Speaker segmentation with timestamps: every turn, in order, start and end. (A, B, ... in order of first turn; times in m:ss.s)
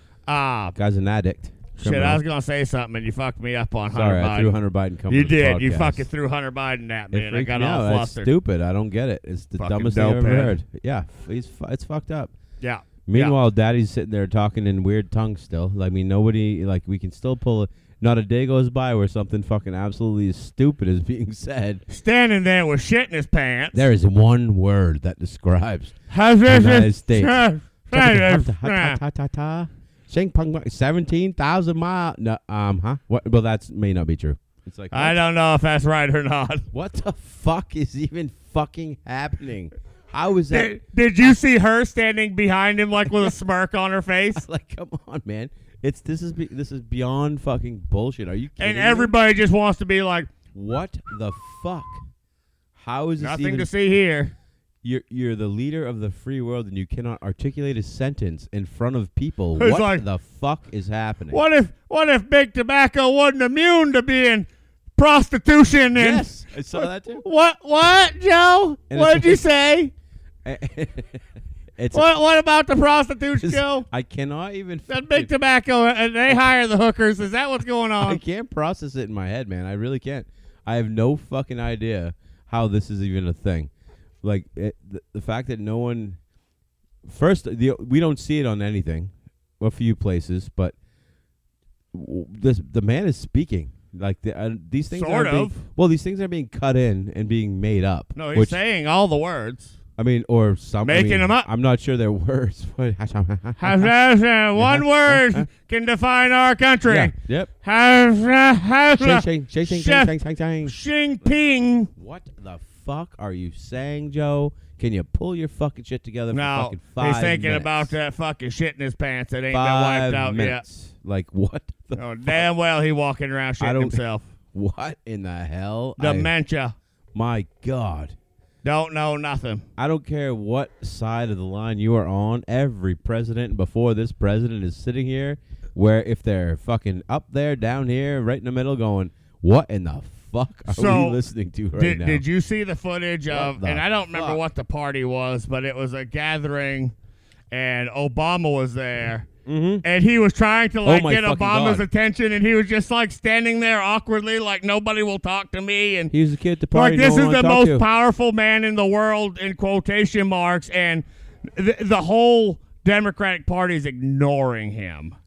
0:00.3-0:00.8 A
0:00.8-0:02.2 B
0:01.8-0:08.3 A
0:03.9-0:06.1 B
0:07.1-0:12.3 B
0:09.6-0:10.6 A
0:12.6-0:13.4 A
0:13.1-0:21.8 B
0:21.9-0:23.8 A
0:23.7-0:26.0 B
0:26.1-0:29.0 A
0:26.5-0:35.2 B
0:34.9-0:36.7 A
0:36.7-0:41.4 B
0:40.5-0:44.4 A
0:44.4-0:49.1 B
0:48.6-0:50.3 A
0:50.5-0:52.0 B
0:52.8-0:53.7 B
0:53.2-0:54.3 A
0:54.8-1:01.4 B
0:59.6-1:00.0 A
1:01.3-1:09.9 A
1:06.0-1:07.2 B
1:08.9-1:09.4 B
1:10.4-1:11.2 B
1:11.8-1:12.0 B
1:11.9-1:13.9 A
1:13.4-1:15.3 B
1:14.9-1:18.2 A
1:18.0-1:23.7 B
1:24.2-1:26.2 B
1:27.0-1:30.8 B
1:31.9-1:38.6 B
1:34.9-1:35.5 A
1:38.2-1:39.8 A
1:40.0-1:43.9 B
1:40.8-1:41.5 A
1:43.6-1:50.1 A
1:44.6-1:45.5 B
1:46.8-1:47.5 B
1:49.0-1:50.7 B
1:50.6-1:51.9 A
1:52.0-1:57.9 B
1:56.3-2:00.6 A
1:59.5-2:02.4 B
2:02.0-2:04.3 A
2:03.6-2:04.0 B
2:04.5-2:06.3 B
2:06.0-2:06.7 A
2:07.1-2:08.2 B
2:08.6-2:09.6 A
2:09.8-2:22.2 B
2:20.7-2:21.2 A
2:21.8-2:26.9 A
2:23.3-2:24.4 B
2:27.5-2:29.3 A
2:29.4-2:29.8 B
2:29.8-2:36.1 A
2:30.8-2:31.8 B
2:36.1-2:37.8 B
2:36.7-2:45.2 A